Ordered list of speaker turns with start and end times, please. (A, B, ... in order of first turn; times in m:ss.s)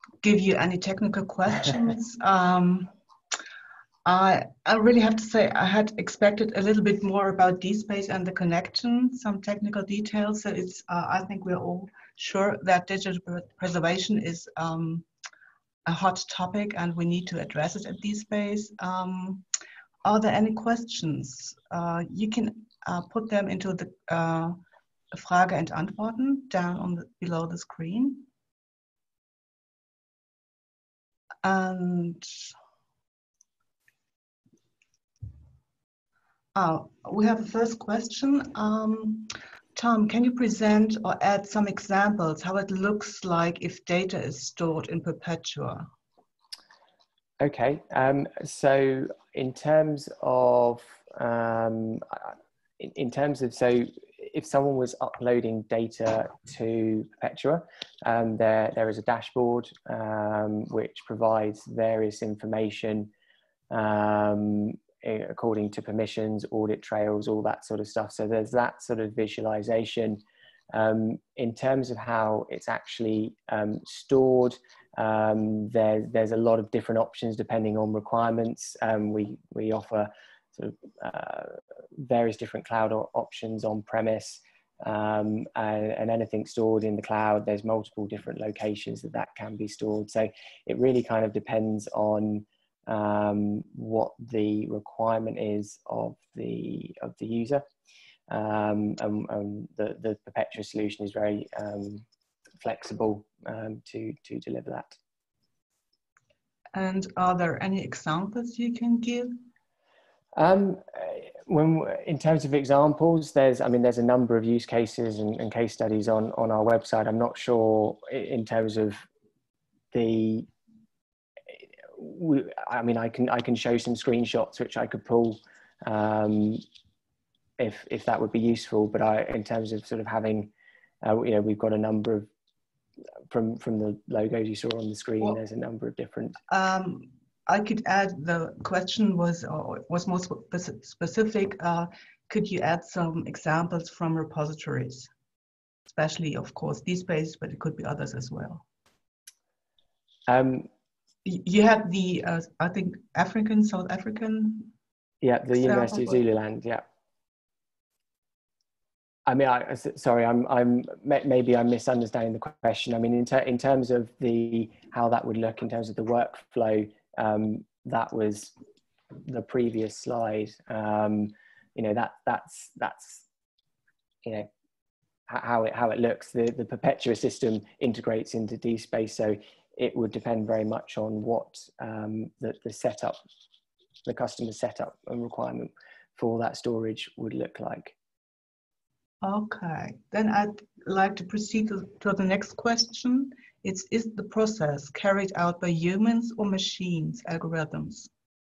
0:00.2-0:02.9 A
0:04.0-0:15.1 A
0:15.8-0:19.5 A
0:20.0-0:24.6 A
0:25.1-0:28.3 A
0:31.4-0:32.5 A
0:36.5-0:45.9 A
0:47.4-1:03.1 B
1:03.7-1:37.6 B
1:38.3-1:42.0 B
1:42.6-1:45.0 B
1:46.7-1:49.5 A
1:50.4-1:59.0 B
1:59.9-2:00.5 B
2:01.9-2:06.6 B
2:07.6-2:10.5 B
2:11.0-2:12.3 B
2:13.3-2:16.4 B
2:16.5-2:25.1 A
2:25.9-2:28.6 A
2:30.3-2:30.7 B
2:31.2-2:34.7 A
2:35.2-2:36.8 B
2:35.6-2:36.2 A
2:39.3-2:48.5 B
2:49.2-2:53.3 B
2:55.3-3:03.2 B
3:04.1-3:08.0 B
3:09.2-3:18.1 A